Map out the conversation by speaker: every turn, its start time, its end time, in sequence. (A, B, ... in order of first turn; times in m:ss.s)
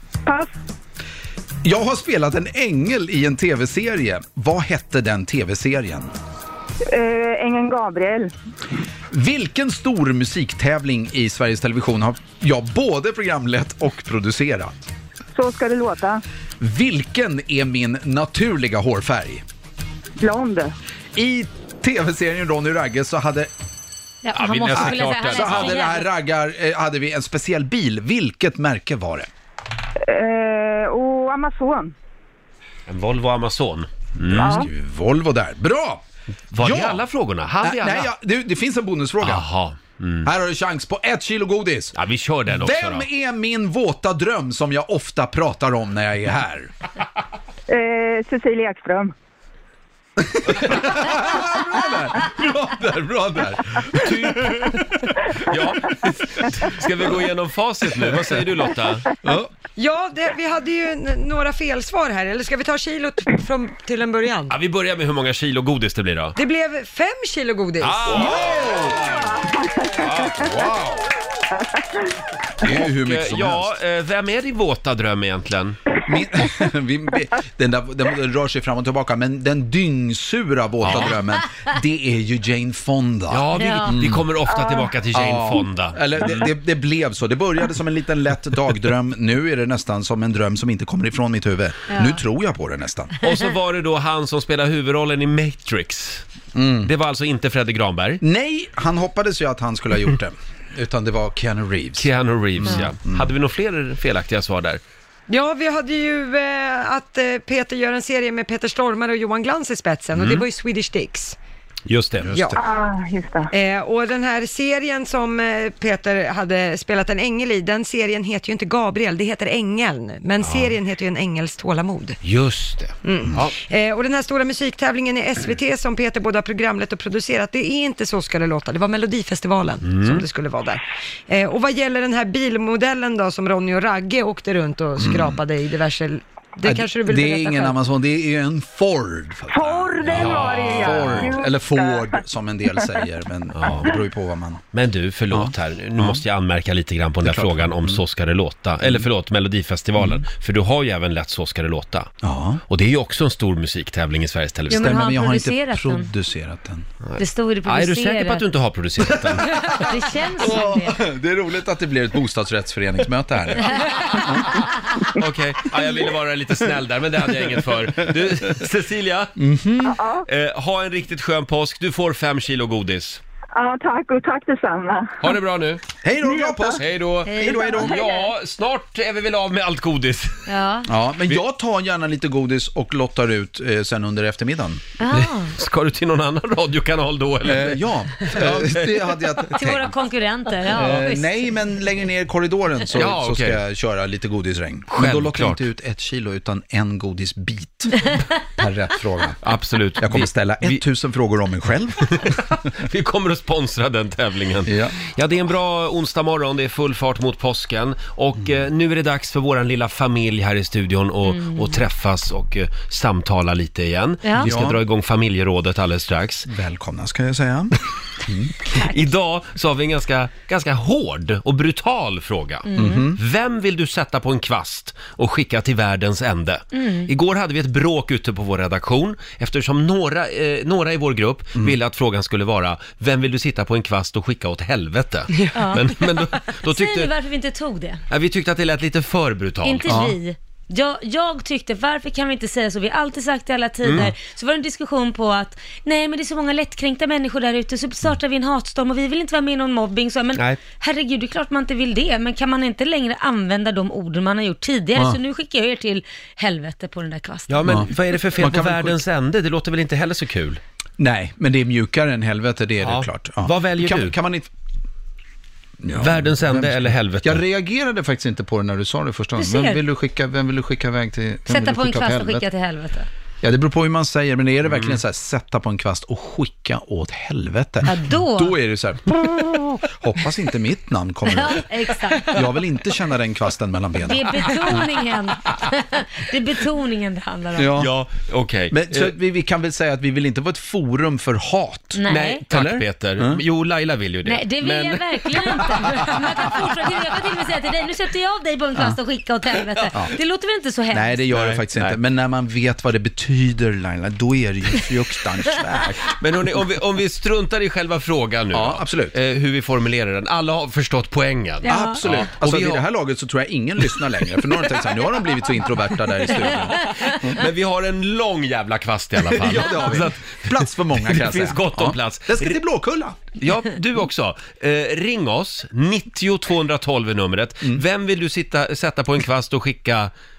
0:00.3-0:00.5 A
0:01.6-0:06.1 B
0:06.9-0:08.3 A
0:09.1-0:14.9 B
0:15.3-0:16.2 A
0:16.6-0:19.4 B
0:20.2-0:20.7 A
0:21.2-0:23.5 B
0:24.2-0:26.1 C
0:24.3-0:25.9 D
0:24.7-0:29.3 B
0:30.0-0:31.9 A
0:32.9-0:34.7 D
0:34.2-0:36.0 B
0:34.4-0:34.7 A
0:36.5-0:38.1 D
0:36.6-0:37.1 B
0:37.6-0:39.5 B
0:39.2-0:40.3 D
0:40.2-0:42.0 B
0:41.9-0:43.1 D
0:42.5-0:46.7 B
0:47.7-0:49.1 A
0:50.2-0:54.9 B
0:54.0-0:54.8 D
0:55.4-0:59.1 D
0:59.2-0:59.5 B
0:59.8-1:04.6 E
1:04.5-1:06.4 D
1:06.4-1:08.2 E
1:07.8-1:09.2 D
1:08.1-1:09.2 B
1:09.1-1:10.1 A
1:10.0-1:10.7 D
1:10.2-1:11.0 B
1:12.6-1:13.7 B
1:12.7-1:15.8 D
1:16.1-1:24.3 B
1:20.8-1:21.2 D
1:23.3-1:26.5 D
1:23.6-1:24.0 C
1:24.5-1:24.9 A
1:25.1-1:33.1 B
1:31.9-1:32.2 C
1:33.2-1:36.3 D
1:36.5-1:36.9 B
1:36.8-1:38.2 D
1:38.2-1:43.3 B
1:42.0-1:44.8 D
1:45.3-1:51.4 E
1:50.2-1:50.4 D
1:51.9-1:52.4 D
1:52.2-1:52.6 B
1:52.6-1:53.5 A
1:53.5-2:02.2 E
2:00.4-2:00.7 D
2:02.2-2:03.5 D
2:03.0-2:17.8 E
2:09.8-2:10.2 D
2:15.0-2:15.4 B
2:16.6-2:24.6 B
2:19.5-2:22.1 A
2:20.1-2:21.3 D
2:23.5-2:23.9 D
2:24.7-2:32.1 D
2:25.3-2:26.2 B
2:27.2-2:28.0 B
2:30.0-2:30.2 B
2:32.2-2:32.6 B
2:32.7-2:34.9 D
2:34.7-2:36.1 C
2:34.7-2:36.9 B
2:37.0-2:39.9 D
2:37.2-2:38.4 C
2:39.2-2:44.6 B
2:39.4-2:41.0 C
2:45.1-2:49.3 D
2:49.4-2:50.0 B
2:49.8-2:50.3 A
2:50.3-2:53.2 D
2:53.5-2:55.2 A
2:55.2-2:55.8 D
2:56.0-2:58.0 B
2:56.2-2:56.8 A
2:56.8-3:00.4 D
2:57.3-2:57.7 C
2:57.7-2:58.3 A
3:00.5-3:00.9 C
3:00.9-3:04.8 B
3:05.0-3:05.5 C
3:05.1-3:08.9 D
3:07.4-3:10.0 B
3:09.5-3:11.3 C
3:10.6-3:19.4 B
3:12.9-3:13.6 D
3:14.9-3:15.7 D
3:19.4-3:20.8 D
3:20.0-3:22.4 B
3:22.1-3:36.5 D
3:24.7-3:25.0 B
3:31.3-3:31.8 C
3:34.2-3:34.5 C
3:34.4-3:34.8 B
3:36.5-3:38.6 B
3:38.7-3:57.1 D
3:42.7-3:43.1 C
3:42.8-3:43.2 B
3:46.7-3:47.1 C
3:55.5-3:56.1 C
3:56.7-3:58.0 C
3:58.1-4:00.0 D
3:59.6-4:17.6 C
3:59.9-4:00.2 B
4:03.8-4:04.1 D
4:15.0-4:15.2 B
4:17.5-4:20.6 D
4:17.7-4:19.0 B
4:21.0-4:24.5 B
4:22.8-4:24.2 D
4:25.8-4:32.5 B
4:26.0-4:27.4 D
4:29.4-4:29.8 C
4:31.5-4:33.1 C
4:33.4-4:44.9 B
4:34.7-4:35.0 D
4:37.9-4:38.6 C
4:41.3-4:42.4 C
4:44.0-4:47.8 C
4:47.6-4:47.9 B
4:47.8-4:49.2 D
4:48.7-4:53.4 B
4:52.0-4:52.4 C
4:52.1-4:56.7 D
4:54.3-5:01.2 C
5:00.9-5:06.1 B
5:01.3-5:02.0 D
5:06.2-5:12.8 D
5:08.5-5:09.2 B
5:11.6-5:12.0 C
5:11.7-5:17.4 B
5:16.8-5:22.6 D
5:19.2-5:23.2 B
5:23.4-5:30.1 D